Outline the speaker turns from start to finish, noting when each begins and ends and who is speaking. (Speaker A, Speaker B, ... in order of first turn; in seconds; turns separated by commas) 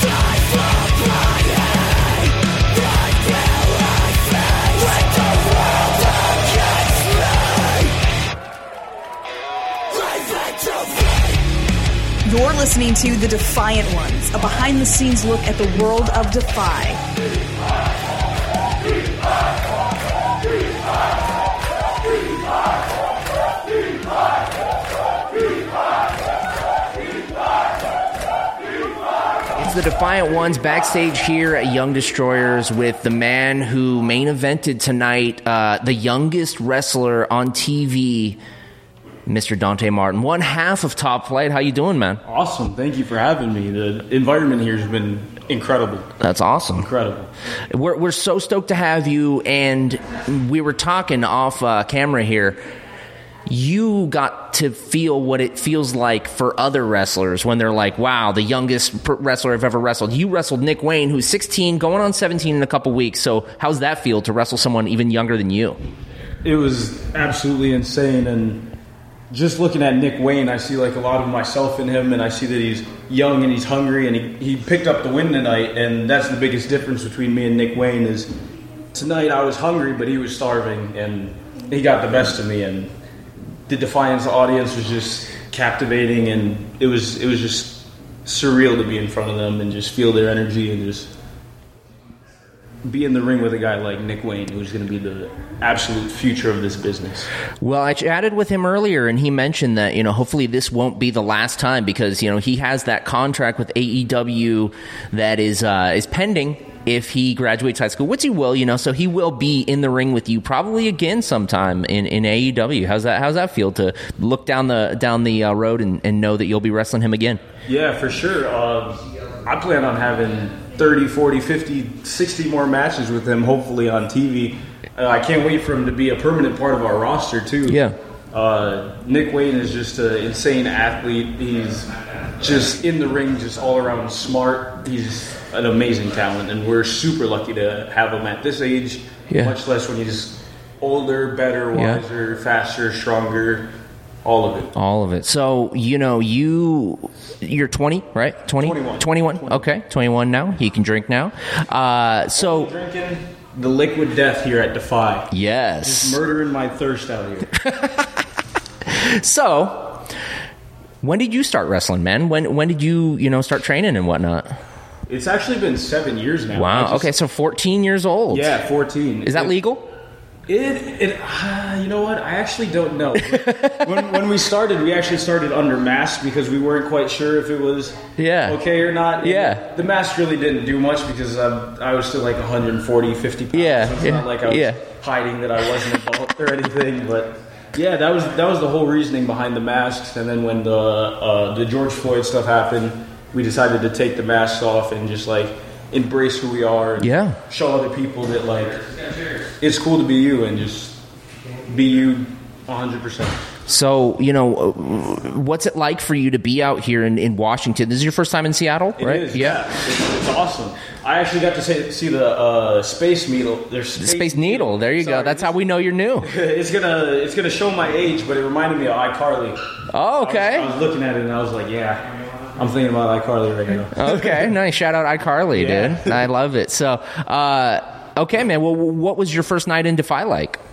Speaker A: 3.2-7.9, Speaker A: 10.1-11.2, Speaker A: 12.2-17.0, Speaker B: 29.6-38.4, Speaker B: 39.3-42.2, Speaker C: 42.2-46.1, Speaker B: 46.2-46.9, Speaker C: 46.8-47.3, Speaker B: 47.7-52.6, Speaker B: 53.5-65.8, Speaker C: 66.4-68.7, Speaker C: 69.3-78.3, Speaker C: 78.9-82.9, Speaker C: 83.7-91.1, Speaker C: 92.9-97.3, Speaker B: 97.6-117.4, Speaker C: 117.7-143.7, Speaker B: 127.7-128.0, Speaker B: 141.7-142.0, Speaker C: 144.2-144.8, Speaker B: 144.8-152.7, Speaker C: 148.6-149.7, Speaker C: 152.3-157.6, Speaker B: 155.3-156.2, Speaker B: 157.6-158.1, Speaker B: 158.8-160.0, Speaker B: 161.0-164.5, Speaker C: 165.1-167.1, Speaker B: 166.5-168.5, Speaker C: 168.3-169.6, Speaker B: 169.2-169.9, Speaker C: 170.5-198.8, Speaker B: 173.3-174.0, Speaker B: 178.2-178.6, Speaker B: 179.2-179.6, Speaker B: 183.5-184.8, Speaker B: 197.0-197.4, Speaker C: 199.6-201.0, Speaker C: 201.6-203.4, Speaker B: 203.7-209.7, Speaker C: 209.0-215.6, Speaker B: 214.0-216.3, Speaker C: 216.2-219.6, Speaker B: 219.9-220.7, Speaker C: 220.2-224.5, Speaker B: 223.9-230.6, Speaker C: 225.5-226.2